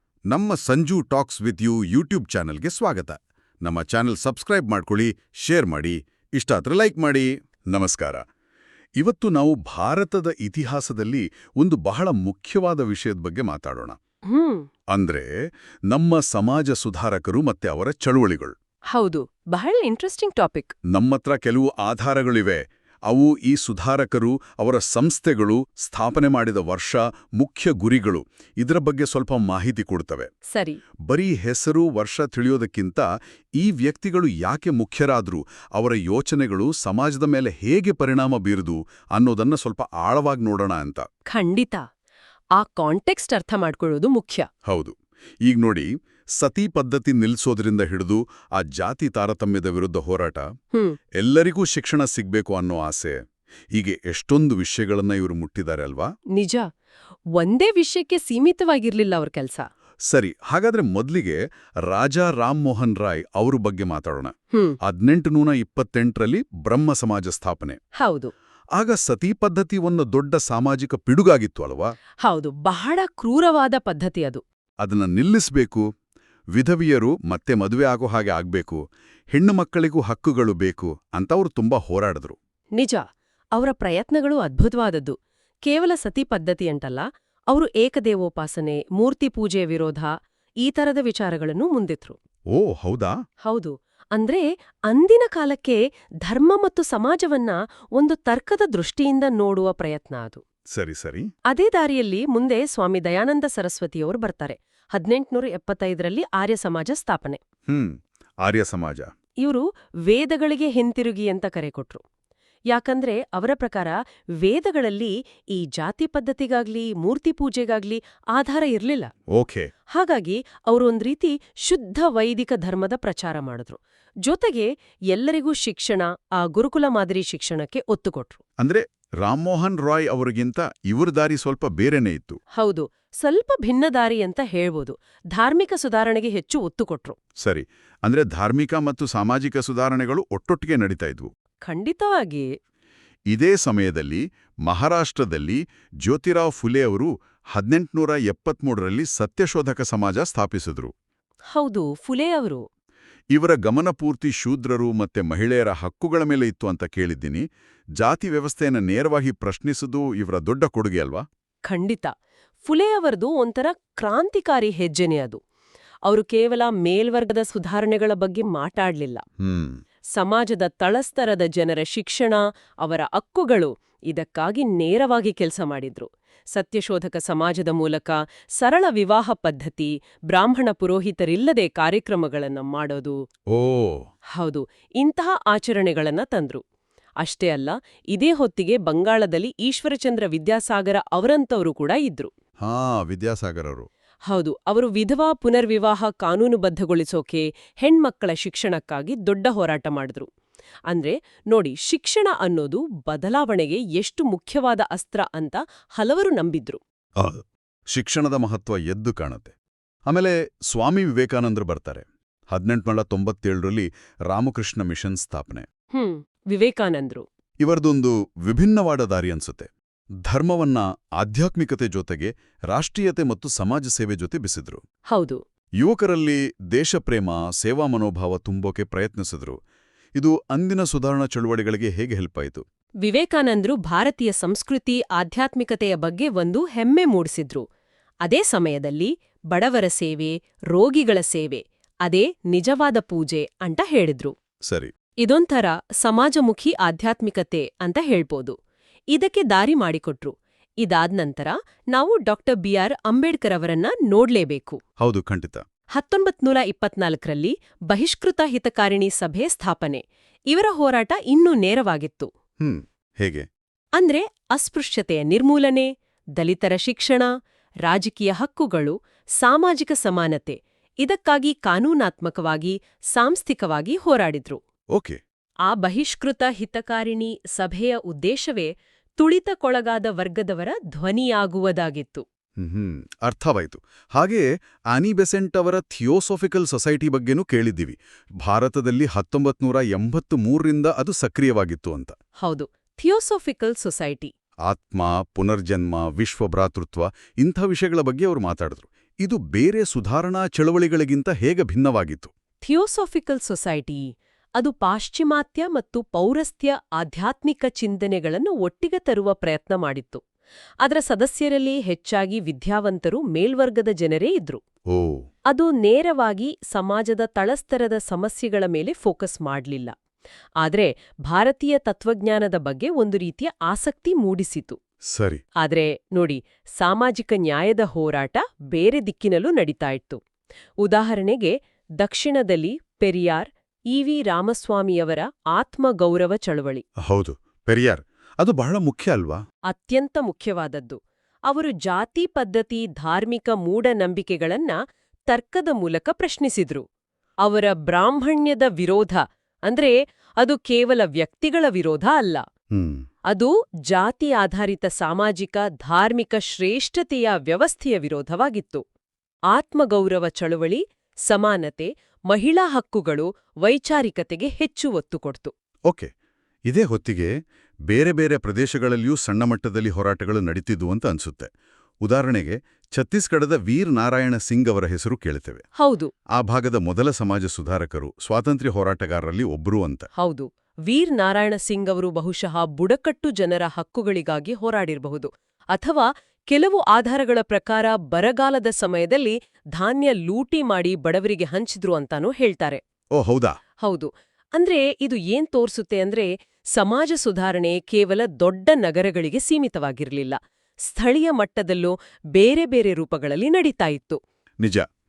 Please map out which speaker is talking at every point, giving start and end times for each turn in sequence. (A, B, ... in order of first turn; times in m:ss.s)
0:00.3-0:08.2 A
0:09.0-0:14.0 A
0:14.3-0:14.7 B
0:14.9-0:15.3 A
0:15.9-0:18.5 A
0:18.9-0:20.7 B
0:20.9-0:30.3 A
0:30.5-0:30.8 B
0:31.1-0:41.1 A
0:41.3-0:41.8 B
0:42.6-0:44.5 B
0:44.7-0:50.5 A
0:51.2-0:53.2 A
0:53.8-0:56.1 A
0:56.4-0:56.7 B
0:57.4-0:59.7 B
1:00.1-1:07.8 A
1:08.0-1:08.3 B
1:08.8-1:11.9 A
1:12.2-1:14.4 B
1:14.8-1:15.9 A
1:16.6-1:18.8 A
1:19.3-1:22.4 A
1:22.8-1:23.0 B
1:23.6-1:32.2 B
1:32.5-1:33.2 A
1:33.5-1:40.4 B
1:40.7-1:41.3 A
1:41.5-1:47.4 B
1:47.7-1:49.1 A
1:49.4-1:52.0 B
1:52.7-1:59.1 B
1:59.3-1:59.7 A
1:59.9-2:08.4 B
2:08.6-2:12.4 A
2:12.6-2:17.2 B
2:17.4-2:21.3 A
2:21.7-2:22.5 B
2:23.3-2:30.9 A
2:31.5-2:32.7 B
2:33.3-2:37.5 A
2:38.0-2:41.2 A
2:41.7-2:42.1 B
2:42.6-2:45.4 B
2:46.1-2:49.2 B
2:49.4-2:49.8 A
2:50.1-3:03.2 B
3:03.5-3:04.1 A
3:04.4-3:06.6 B
3:07.2-3:12.3 B
3:12.6-3:13.9 A
3:14.3-3:20.3 B
3:20.9-3:26.8 B
3:27.2-3:29.5 A
3:30.1-3:35.7 A
3:35.9-3:37.2 B
3:37.6-3:39.7 A
3:40.2-3:44.8 A
3:45.1-3:45.4 B
3:45.8-3:49.6 A
3:50.2-3:52.6 A
3:53.0-3:57.6 B
3:58.2-4:04.3 B
4:05.2-4:08.6 B
4:09.1-4:14.8 B
4:15.0-4:15.6 A
4:16.0-4:22.3 B
4:22.6-4:23.5 A
4:24.0-4:27.3 B
4:27.9-4:34.6 B
4:35.7-4:42.2 B
4:42.6-4:52.2 A
4:52.4-4:54.3 B
4:54.7-5:02.3 A
5:02.6-5:10.2 B
5:10.8-5:14.6 B
5:14.9-5:15.2 A
5:15.5-5:20.0 B
5:20.6-5:24.8 B
5:25.1-5:25.4 A
5:25.6-5:30.2 B
5:30.8-5:36.8 B
5:37.0-5:39.4 A
5:39.7-5:44.8 B
5:45.3-5:46.8 B
5:47.4-5:52.4 B
5:52.7-5:53.0 A
5:53.3-5:58.8 B
5:59.5-6:05.5 B
6:06.7-6:07.4 A
6:07.9-6:11.5 A
6:12.0-6:15.6 A
6:15.8-6:16.1 B
6:16.4-6:20.1 A
6:20.2-6:32.8 B
6:33.2-6:33.6 A
6:33.8-6:44.2 B